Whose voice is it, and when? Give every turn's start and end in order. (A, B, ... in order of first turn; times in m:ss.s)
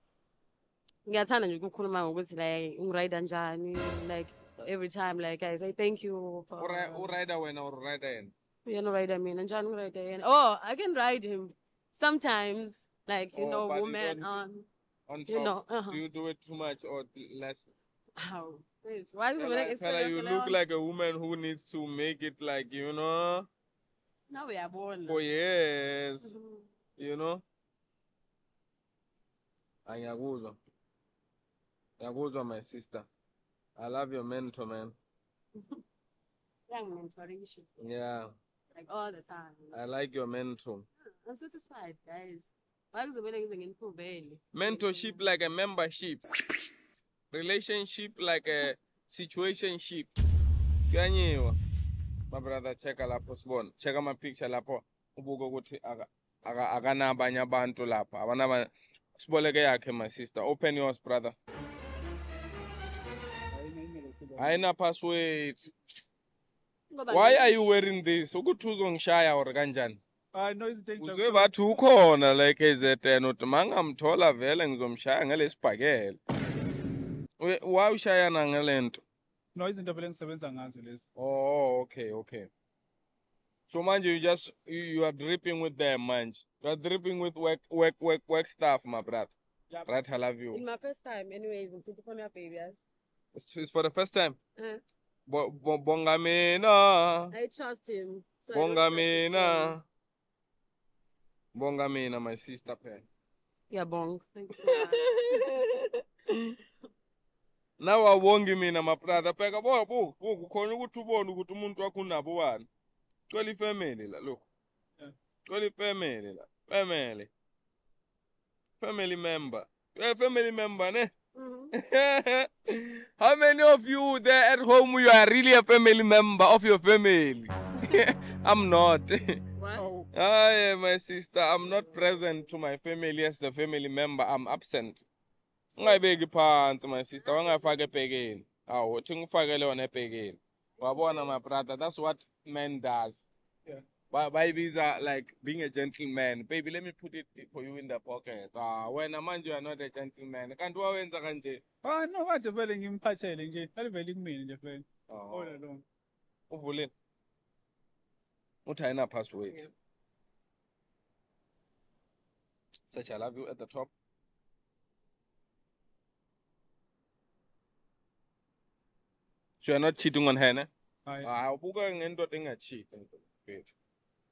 0:01.0-0:07.1 A
0:06.6-0:08.3 B
0:08.6-0:14.7 A
0:13.4-0:14.2 B
0:15.1-0:17.7 B
0:15.3-0:16.0 A
0:18.2-0:20.6 A
0:19.4-0:23.5 B
0:24.3-0:25.2 A
0:25.1-0:26.3 B
0:26.2-0:26.7 A
0:27.0-0:27.4 B
0:29.8-0:30.6 B
0:32.0-0:33.0 B
0:33.8-0:34.9 B
0:36.7-0:37.6 A
0:37.8-0:38.3 B
0:38.7-0:39.8 A
0:39.7-0:40.8 B
0:41.2-0:45.2 A
0:44.5-0:46.2 B
0:47.3-0:50.1 B
0:50.9-0:51.6 B
0:52.3-1:01.3 B
1:03.5-1:04.6 C
1:04.4-1:05.7 B
1:06.9-1:07.8 A
1:07.1-1:10.0 B
1:10.3-1:11.6 C
1:11.0-1:16.2 B
1:17.4-1:19.0 B
1:19.5-1:21.1 C
1:21.2-1:22.5 B
1:23.7-1:29.3 B
1:29.9-1:30.6 B
1:30.5-1:32.8 A
1:33.3-1:34.4 B
1:35.3-1:37.3 B
1:37.3-1:39.8 A
1:38.5-1:39.8 B
1:41.5-1:43.0 B
1:43.7-1:45.4 A
1:47.8-1:52.6 B
1:53.3-1:54.4 B
1:55.5-1:57.3 B
1:58.8-2:01.1 B
2:01.3-2:01.7 A
2:01.8-2:09.4 B
2:09.6-2:09.8 A
2:09.8-2:10.1 C
2:10.1-2:15.0 B
2:15.8-2:23.2 B
2:20.9-2:21.3 A
2:24.1-2:31.6 B
2:31.8-2:35.8 C
2:35.1-2:35.5 B
2:36.5-2:36.9 B
2:38.6-2:39.7 B
2:42.9-2:43.9 B
2:49.6-2:50.7 B
2:51.2-2:53.7 B